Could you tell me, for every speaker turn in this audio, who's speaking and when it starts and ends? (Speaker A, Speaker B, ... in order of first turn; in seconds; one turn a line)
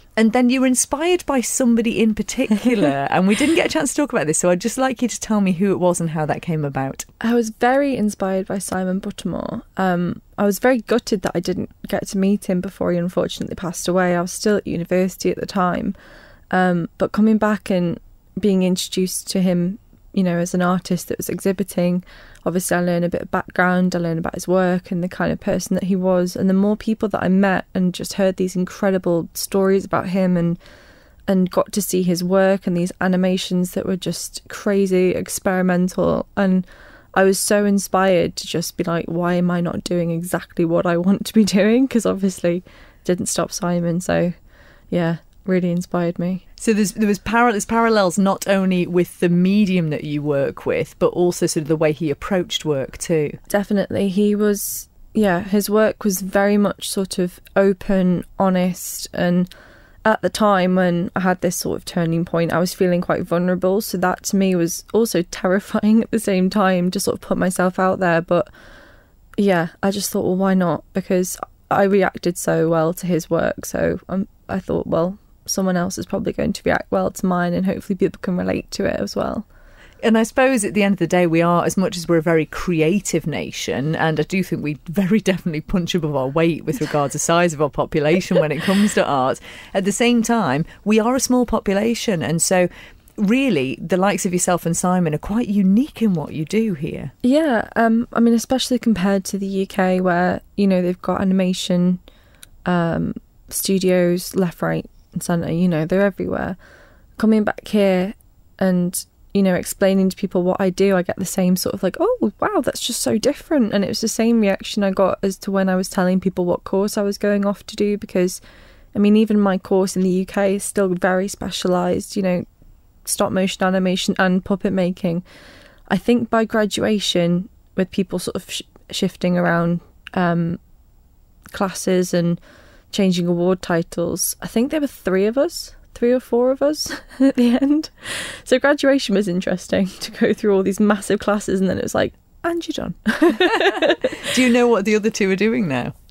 Speaker A: 0.2-7.0
Speaker B: 7.2-15.9
Speaker B: 16.5-30.6
Speaker B: 31.3-44.3
Speaker B: 44.9-46.4
Speaker A: 46.6-53.4
Speaker B: 53.5-59.5
Speaker B: 60.0-68.5
Speaker B: 69.4-79.5
Speaker A: 80.0-97.1
Speaker B: 97.2-102.0
Speaker B: 102.6-106.6
Speaker B: 107.2-118.4
Speaker B: 118.9-122.5
Speaker B: 123.0-125.2
Speaker B: 125.9-130.6
Speaker B: 131.5-132.4
Speaker B: 132.9-144.3
Speaker A: 143.6-145.9